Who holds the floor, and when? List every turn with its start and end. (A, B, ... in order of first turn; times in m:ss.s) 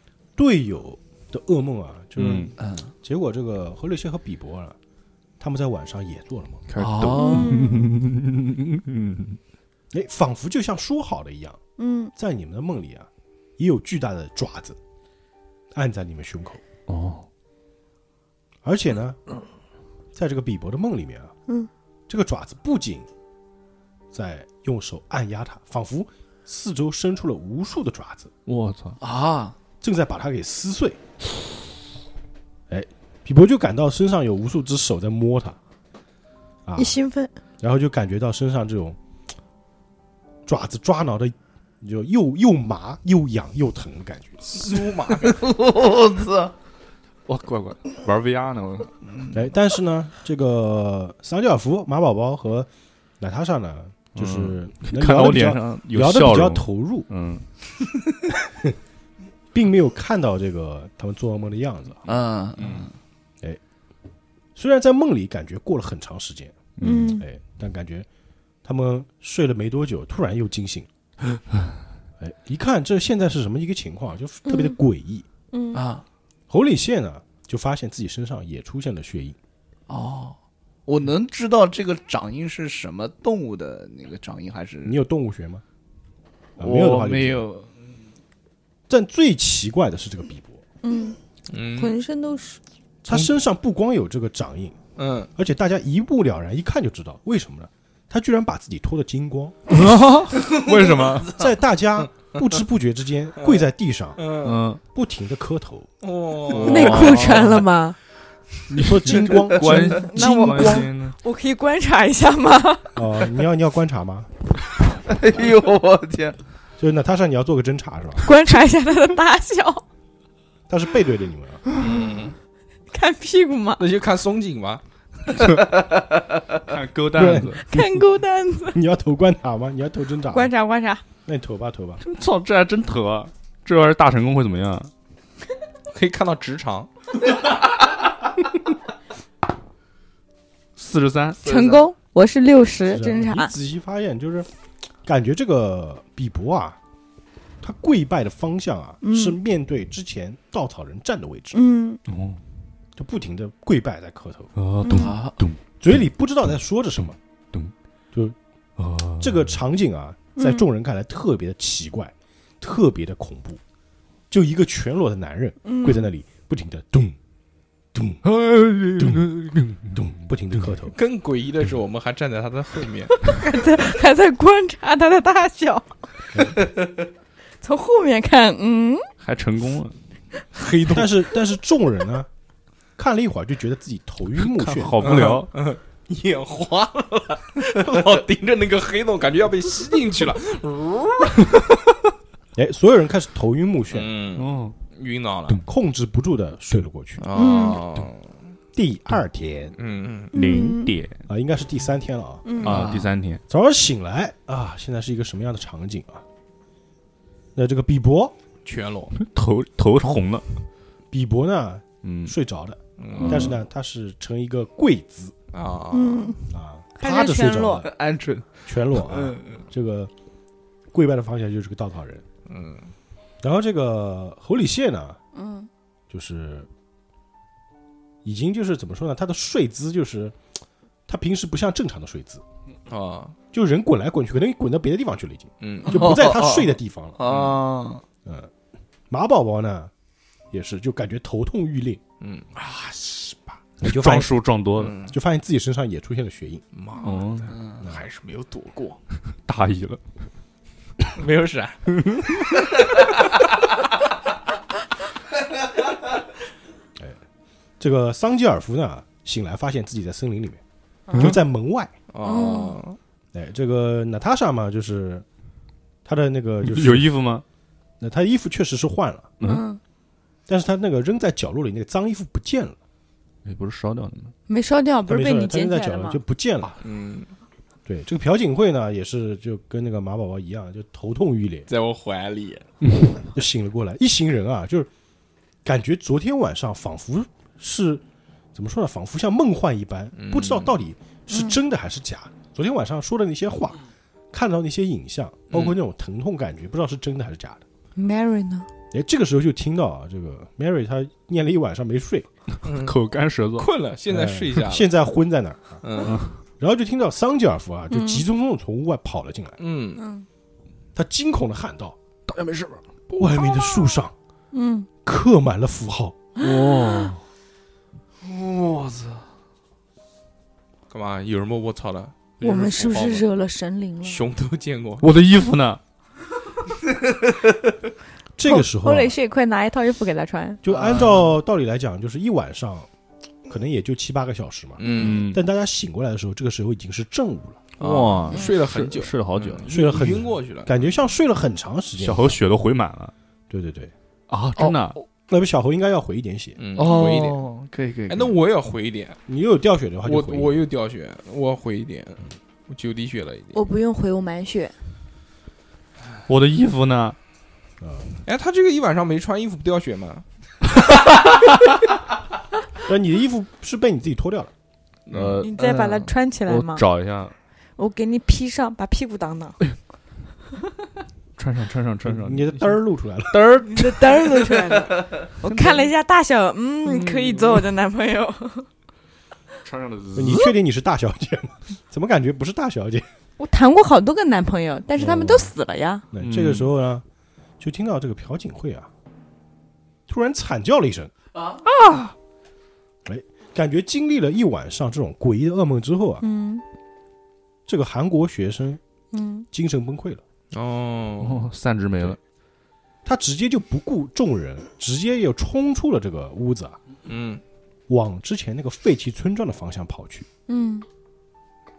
0:00.4-0:04.8 A
0:02.2-0:02.5 B
0:02.6-0:02.9 C
0:05.4-0:06.6 A
0:06.7-0:09.4 B
0:06.8-0:07.6 C
0:07.0-0:07.9 D
0:09.9-0:11.6 A
0:11.8-0:12.1 D
0:12.2-0:14.8 A
0:15.7-0:16.6 A
0:16.9-0:17.3 B
0:18.6-0:19.2 A
0:20.1-0:21.3 A
0:22.1-0:23.1 A
0:24.1-0:28.3 A
0:28.4-0:29.0 B
0:29.0-0:29.6 C
0:29.8-0:31.0 A
0:32.7-0:35.6 A
0:36.6-0:37.0 A
0:36.8-0:37.3 D
0:37.6-0:39.0 A
0:40.4-0:44.8 A
0:44.4-0:45.4 E
0:45.2-0:46.5 C
0:47.2-0:48.9 B
0:49.3-0:52.7 A
0:53.2-0:57.1 A
0:54.1-0:57.4 B
0:59.5-1:02.0 A
1:02.0-1:02.9 C
1:02.6-1:02.8 B
1:04.5-1:08.1 A
1:06.8-1:07.2 B
1:06.8-1:07.2 D
1:08.6-1:10.9 A
1:12.2-1:15.2 A
1:14.4-1:14.8 D
1:15.5-1:15.8 D
1:15.7-1:16.0 C
1:16.5-1:19.4 A
1:19.9-1:25.0 C
1:24.8-1:25.6 A
1:26.6-1:27.5 A
1:26.6-1:27.7 C
1:28.9-1:30.6 A
1:30.8-1:31.2 D
1:31.5-1:32.0 E
1:31.7-1:32.6 D
1:33.0-1:34.8 A
1:35.0-1:35.3 E
1:35.4-1:39.7 A
1:39.7-1:41.4 B
1:41.3-1:44.2 A
1:43.4-1:44.6 E
1:44.4-1:44.8 B
1:44.8-1:45.9 A
1:46.0-1:47.4 E
1:46.5-1:47.6 B
1:46.6-1:48.0 D
1:48.7-1:50.9 A
1:48.7-1:51.2 B
1:49.6-1:53.0 D
1:52.9-1:54.3 A
1:55.0-1:56.4 C
1:56.8-1:58.3 A
1:58.2-1:59.8 D
2:00.7-2:01.6 A
2:01.8-2:02.3 E
2:02.9-2:03.8 D
2:03.8-2:04.8 E
2:05.7-2:06.2 C
2:06.6-2:07.6 B
2:07.1-2:08.1 A
2:07.6-2:08.8 D
2:08.7-2:10.5 A
2:10.3-2:11.0 D
2:11.2-2:12.0 A
2:12.0-2:14.9 B
2:15.9-2:16.9 E
2:20.8-2:21.4 B
2:21.4-2:21.8 C
2:21.4-2:23.5 D
2:22.9-2:24.5 A
2:25.0-2:26.8 A
2:27.6-2:31.6 A
2:29.0-2:29.4 D
2:31.5-2:32.0 D
2:32.1-2:32.4 B
2:33.0-2:34.5 A
2:34.6-2:35.6 B
2:34.8-2:35.1 D
2:34.9-2:35.4 C
2:35.8-2:37.2 A
2:38.8-2:39.5 B
2:39.2-2:43.6 A
2:40.4-2:40.6 D
2:44.3-2:47.2 A
2:45.6-2:46.1 D
2:47.9-2:48.2 A
2:48.2-2:49.9 B
2:49.0-2:51.0 A
2:50.9-2:53.3 E
2:53.2-2:56.7 D
2:57.6-2:59.1 D
2:59.2-3:00.0 B
3:00.5-3:01.2 E
3:00.9-3:02.3 A
3:03.0-3:05.3 A
3:04.4-3:05.5 B
3:05.0-3:11.6 E
3:12.6-3:14.1 A
3:13.9-3:15.6 E
3:14.4-3:14.8 B
3:15.5-3:17.2 A
3:17.2-3:18.2 E
3:17.3-3:17.8 D
3:18.7-3:19.8 A
3:19.8-3:20.3 E
3:20.3-3:20.9 D
3:20.3-3:21.2 B
3:21.3-3:22.6 A
3:22.4-3:22.8 D
3:22.6-3:23.4 B
3:22.6-3:23.1 C
3:23.5-3:26.2 A
3:27.6-3:28.3 A
3:28.6-3:29.1 E
3:29.1-3:30.6 B
3:31.1-3:35.3 A
3:32.0-3:32.3 B
3:33.0-3:33.5 E
3:33.2-3:33.5 B
3:35.5-3:36.4 E
3:35.9-3:37.9 D
3:36.5-3:37.9 A
3:37.8-3:39.6 C
3:38.6-3:40.1 A
3:40.9-3:42.2 A
3:42.5-3:42.9 E
3:43.4-3:45.2 A
3:45.3-3:45.7 D
3:46.1-3:46.7 A
3:48.2-3:50.4 A
3:51.1-3:52.4 A
3:52.9-3:53.4 E
3:53.5-3:57.2 A
3:55.6-3:56.1 E
3:55.9-3:58.0 C
3:57.2-3:57.6 E
3:58.2-3:58.5 A
3:59.1-3:59.9 A
4:00.5-4:02.0 A
4:02.2-4:03.4 E
4:03.8-4:04.3 A
4:03.8-4:05.0 B
4:04.8-4:05.2 E
4:05.1-4:06.6 A
4:06.7-4:09.0 E
4:07.0-4:07.5 B
4:07.5-4:07.8 C
4:09.4-4:10.0 B
4:11.1-4:12.0 E
4:17.8-4:20.6 A
4:21.1-4:21.9 A
4:22.1-4:23.0 E
4:22.2-4:22.8 D
4:23.3-4:25.2 A
4:26.0-4:27.1 A
4:26.6-4:27.4 B
4:28.0-4:29.3 A
4:29.4-4:29.8 D
4:30.5-4:32.8 A
4:33.4-4:34.3 B
4:34.5-4:36.2 D
4:35.1-4:36.8 A
4:36.8-4:37.3 E
4:37.8-4:41.7 A
4:41.7-4:42.7 E
4:43.2-4:44.9 A
4:45.6-4:48.0 A
4:48.5-4:57.6 A
4:50.2-4:50.7 E
4:51.3-4:51.6 D
4:55.5-4:55.8 E
4:58.0-4:58.7 D
4:58.9-5:02.3 A
5:02.6-5:03.0 E
5:02.6-5:03.7 B
5:03.6-5:04.9 E
5:04.1-5:09.6 A
5:05.8-5:06.3 E
5:06.0-5:06.3 B
5:07.9-5:08.2 D
5:09.6-5:10.0 E
5:10.0-5:10.2 D
5:10.9-5:12.0 A
5:12.3-5:12.8 B
5:13.1-5:13.4 E
5:13.2-5:14.1 A
5:14.5-5:14.9 D
5:15.0-5:16.2 A
5:16.4-5:17.2 B
5:18.2-5:19.2 C
5:20.9-5:23.3 E
5:22.4-5:24.2 D
5:24.0-5:25.0 E
5:25.0-5:25.8 B
5:28.4-5:29.2 A
5:28.4-5:30.6 D
5:30.6-5:32.9 A
5:33.5-5:37.6 A
5:34.8-5:35.2 E
5:34.8-5:35.4 B
5:37.8-5:39.7 B
5:37.8-5:40.7 E
5:39.7-5:42.4 A
5:42.0-5:43.1 B
5:43.5-5:43.9 A
5:44.3-5:45.0 B
5:44.6-5:45.0 C
5:45.3-5:46.6 A
5:46.6-5:47.4 E
5:46.8-5:48.3 C
5:46.8-5:47.2 D
5:48.1-5:49.2 E
5:49.3-5:50.6 A
5:50.0-5:53.6 E
5:53.5-5:54.7 D
5:56.3-5:57.2 B
5:57.8-5:58.1 A
5:58.2-6:00.2 E
6:02.8-6:04.5 A
6:05.1-6:05.4 E
6:05.1-6:05.5 B
6:05.4-6:06.8 D
6:05.5-6:06.1 C
6:06.5-6:07.3 B
6:07.8-6:09.6 D
6:11.4-6:12.8 B
6:12.0-6:13.4 A
6:13.3-6:14.3 B
6:13.6-6:18.7 D
6:15.4-6:15.9 B
6:17.1-6:17.4 B
6:19.6-6:20.5 B
6:20.1-6:23.0 A
6:23.4-6:26.0 D
6:25.0-6:25.5 A
6:26.1-6:27.0 A
6:26.2-6:26.7 B
6:27.6-6:28.9 A
6:30.1-6:31.1 A
6:31.8-6:32.1 B
6:33.0-6:36.2 A
6:36.2-6:36.6 D
6:37.6-6:38.8 A
6:39.1-6:39.4 D
6:39.5-6:40.2 A
6:40.5-6:41.5 E
6:41.2-6:42.2 B
6:43.0-6:46.8 A
6:47.0-6:47.4 E
6:47.9-6:50.3 A
6:50.5-6:50.8 D